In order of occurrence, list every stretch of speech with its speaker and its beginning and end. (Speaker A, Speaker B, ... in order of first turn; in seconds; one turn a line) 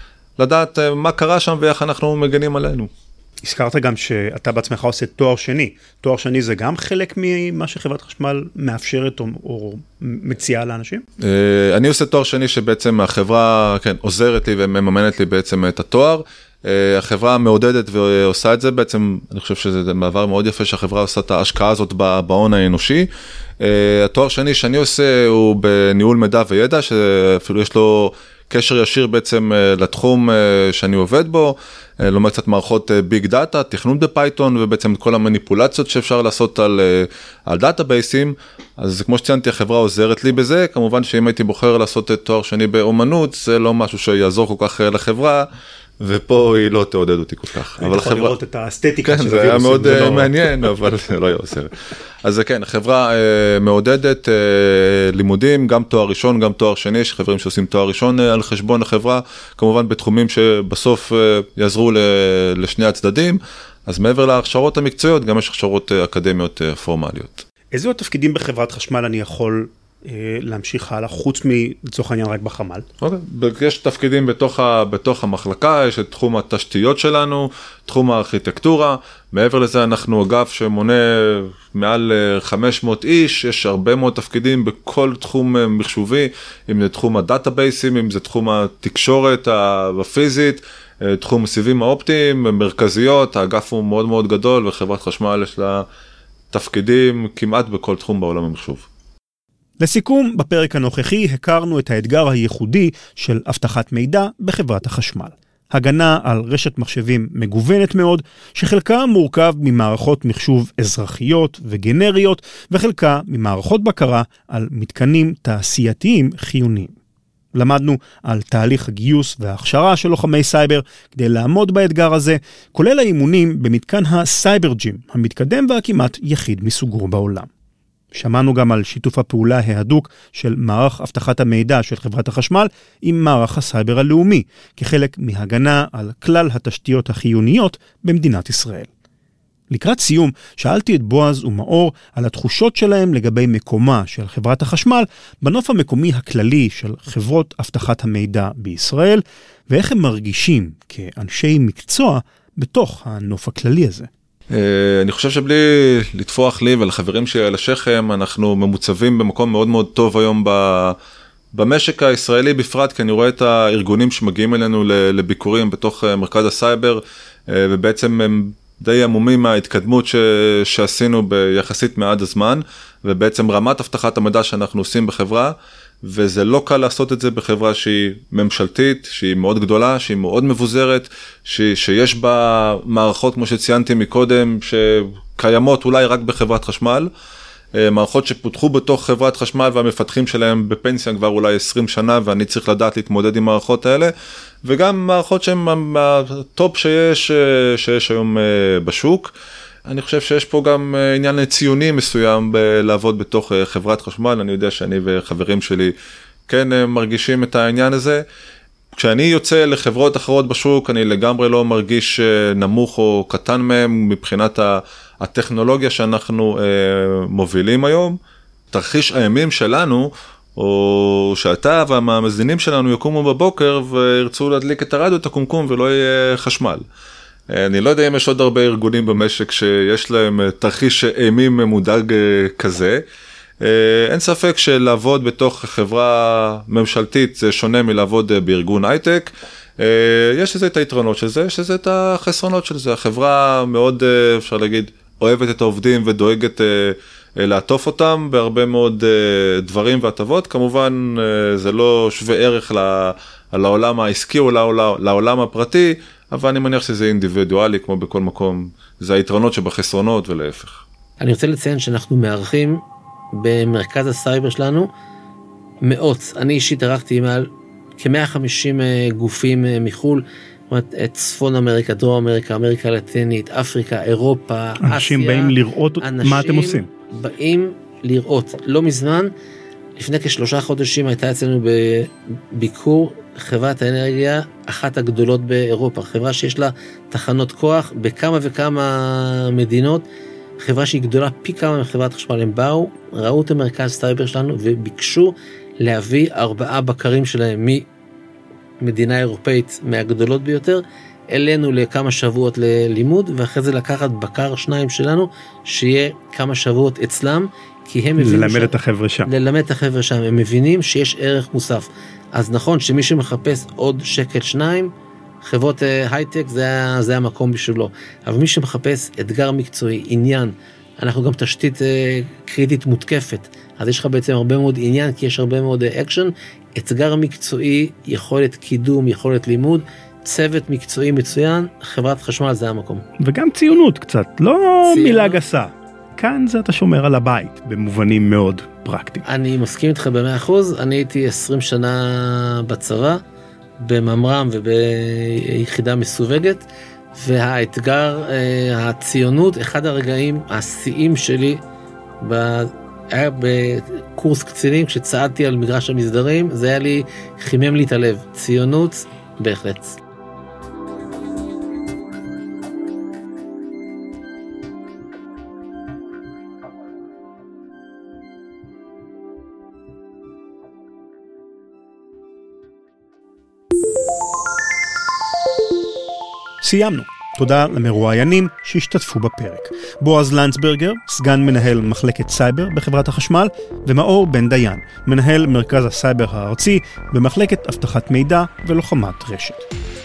Speaker A: 0.4-2.9
Speaker B: 3.4-11.0
Speaker A: 11.2-23.1
Speaker A: 23.6-45.5
Speaker A: 46.0-48.3
Speaker B: 47.8-50.3
Speaker A: 49.0-51.7
Speaker A: 52.2-67.4
Speaker B: 67.7-72.8
Speaker A: 73.0-95.8
Speaker A: 96.5-98.8
Speaker B: 99.8-116.9
Speaker B: 117.5-127.5
Speaker B: 128.1-138.9
Speaker B: 139.7-154.1
Speaker A: 154.5-160.9
Speaker A: 161.5-187.1
Speaker A: 187.7-194.1
Speaker A: 194.6-199.3
Speaker A: 199.9-205.9
Speaker A: 206.5-208.2
Speaker A: 208.9-218.2
Speaker A: 218.7-226.8
Speaker A: 227.5-233.0
Speaker A: 233.6-260.8
Speaker C: 261.2-264.9
Speaker C: 265.8-279.3
Speaker B: 274.8-276.9
Speaker C: 280.0-290.1
Speaker C: 290.6-297.9
Speaker C: 298.8-308.7
Speaker B: 308.2-309.3
Speaker C: 309.2-333.0
Speaker B: 333.2-339.2
Speaker C: 334.8-335.4
Speaker C: 339.2-343.2
Speaker C: 343.8-351.6
Speaker C: 352.2-360.0
Speaker B: 376.6-389.7